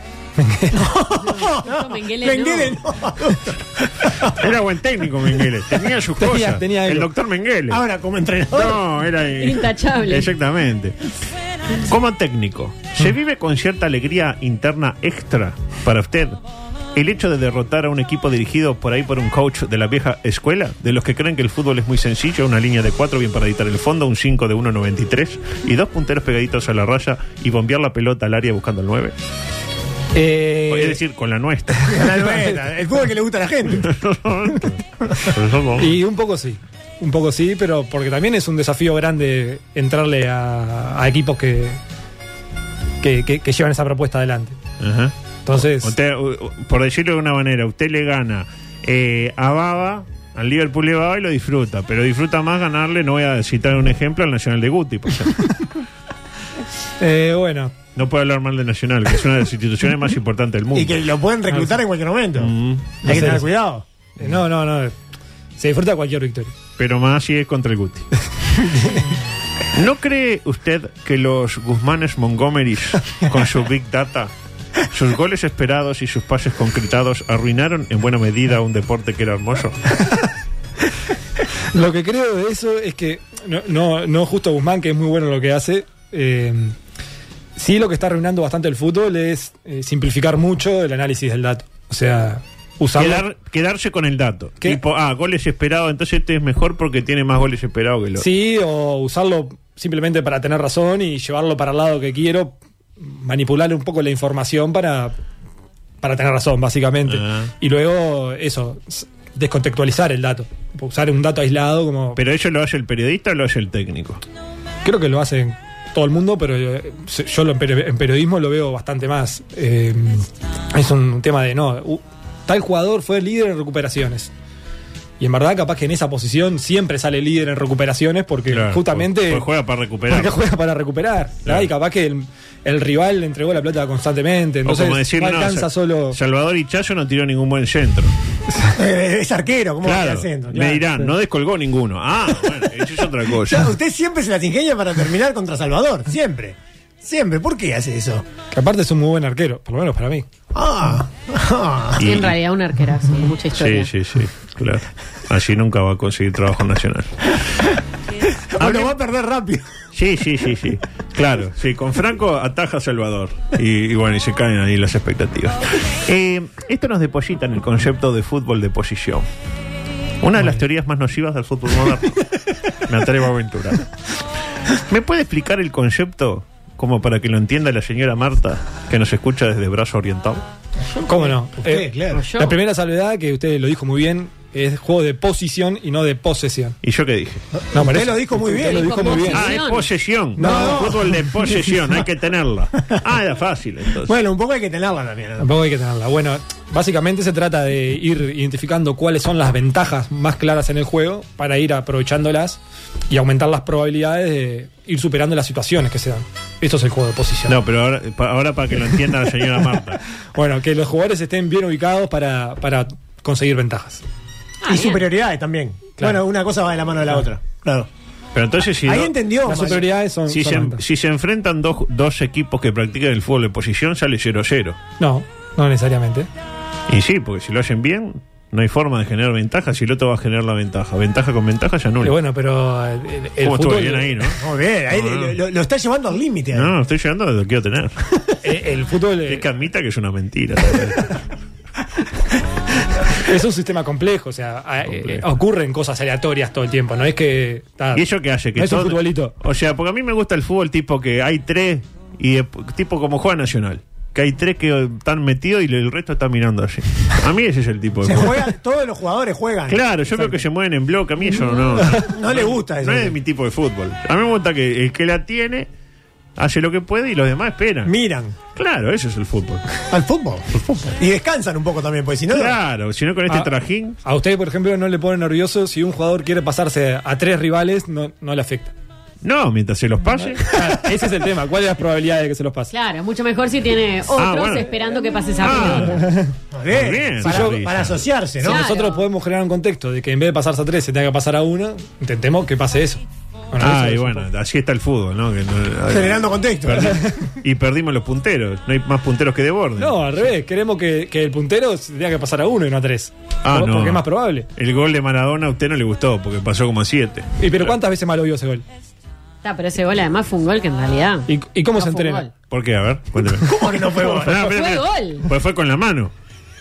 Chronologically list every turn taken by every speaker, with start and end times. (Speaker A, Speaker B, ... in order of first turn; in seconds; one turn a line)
Speaker A: 0.4-0.9
Speaker B: 0.7-4.5
Speaker C: 1.3-2.8
Speaker D: 4.3-7.8
Speaker A: 6.2-7.1
Speaker B: 7.7-8.8
Speaker D: 8.5-11.0
Speaker C: 9.4-10.3
Speaker D: 11.8-16.4
Speaker D: 16.9-29.1
Speaker A: 30.1-31.0
Speaker D: 30.7-32.1
Speaker B: 31.9-33.9
Speaker A: 31.9-32.5
Speaker D: 33.8-36.0
Speaker A: 35.8-41.8
Speaker A: 43.0-44.6
Speaker D: 44.8-45.1
Speaker A: 45.5-46.0
Speaker D: 45.8-55.8
Speaker A: 57.0-57.7
Speaker D: 58.0-61.0
Speaker B: 60.7-62.5
Speaker A: 61.5-61.8
Speaker D: 62.4-63.0
Speaker A: 63.0-63.5
Speaker B: 63.0-63.8
Speaker A: 64.2-65.0
Speaker A: 65.6-66.5
Speaker D: 66.8-68.1
Speaker A: 68.6-69.0
Speaker D: 69.7-74.3
Speaker D: 74.9-79.8
Speaker A: 81.7-86.8
Speaker A: 87.6-93.2
Speaker D: 93.0-98.3
Speaker A: 98.2-105.2
Speaker A: 106.0-112.2
Speaker D: 107.1-107.5
Speaker D: 112.2-114.2
Speaker A: 114.8-124.3
Speaker A: 125.2-129.5
Speaker D: 128.5-130.4
Speaker A: 130.1-136.2
Speaker D: 134.7-138.2
Speaker B: 138.7-140.8
Speaker D: 139.8-143.7
Speaker B: 143.5-148.2
Speaker A: 148.5-150.2
Speaker B: 150.6-152.0
Speaker D: 152.0-152.3
Speaker C: 152.0-153.9
Speaker D: 153.6-157.4
Speaker B: 158.6-159.7
Speaker D: 158.6-158.9
Speaker D: 159.9-169.2
Speaker D: 170.2-172.2
Speaker D: 172.8-173.9
Speaker D: 174.8-180.4
Speaker A: 181.1-186.8
Speaker B: 181.1-182.3
Speaker C: 182.1-182.6
Speaker D: 186.8-187.4
Speaker B: 187.6-189.3
Speaker A: 187.7-189.5
Speaker C: 188.6-189.9
Speaker D: 189.3-194.1
Speaker B: 190.4-191.2
Speaker A: 190.4-190.9
Speaker B: 194.0-195.5
Speaker A: 195.4-207.6
Speaker D: 207.5-210.0
Speaker A: 210.3-214.0
Speaker C: 214.6-215.1
Speaker B: 214.7-217.9
Speaker A: 216.0-216.2
Speaker D: 218.3-224.8
Speaker B: 218.8-219.9
Speaker A: 219.5-220.8
Speaker A: 225.0-226.3
Speaker D: 226.9-232.2
Speaker A: 232.0-234.3
Speaker D: 233.4-234.4
Speaker B: 234.4-236.7
Speaker D: 234.9-235.4
Speaker D: 236.5-238.0
Speaker A: 238.4-239.4
Speaker D: 239.3-241.2
Speaker A: 243.1-249.3
Speaker D: 244.9-245.2
Speaker D: 247.9-258.5
Speaker B: 258.0-260.3
Speaker D: 259.7-265.7
Speaker B: 261.8-263.2
Speaker D: 266.4-267.9
Speaker B: 267.9-268.4
Speaker D: 268.6-269.8
Speaker B: 269.9-272.6
Speaker D: 270.5-270.9
Speaker D: 272.3-274.0
Speaker A: 274.0-278.7
Speaker D: 279.2-280.5
Speaker A: 280.4-282.7
Speaker C: 282.7-286.0
Speaker D: 284.2-284.7
Speaker D: 285.4-286.0
Speaker A: 285.5-286.4
Speaker B: 286.5-288.6
Speaker D: 286.7-288.0
Speaker A: 287.2-287.7
Speaker A: 288.4-293.0
Speaker C: 288.4-289.0
Speaker A: 293.5-294.3
Speaker D: 293.6-300.3
Speaker B: 295.9-297.0
Speaker A: 296.7-297.3
Speaker A: 299.8-304.5
Speaker D: 303.4-304.0
Speaker D: 304.6-307.8
Speaker A: 307.4-308.6
Speaker C: 309.4-312.3
Speaker A: 311.3-312.3
Speaker D: 312.5-316.1
Speaker B: 313.4-314.5
Speaker C: 314.4-315.3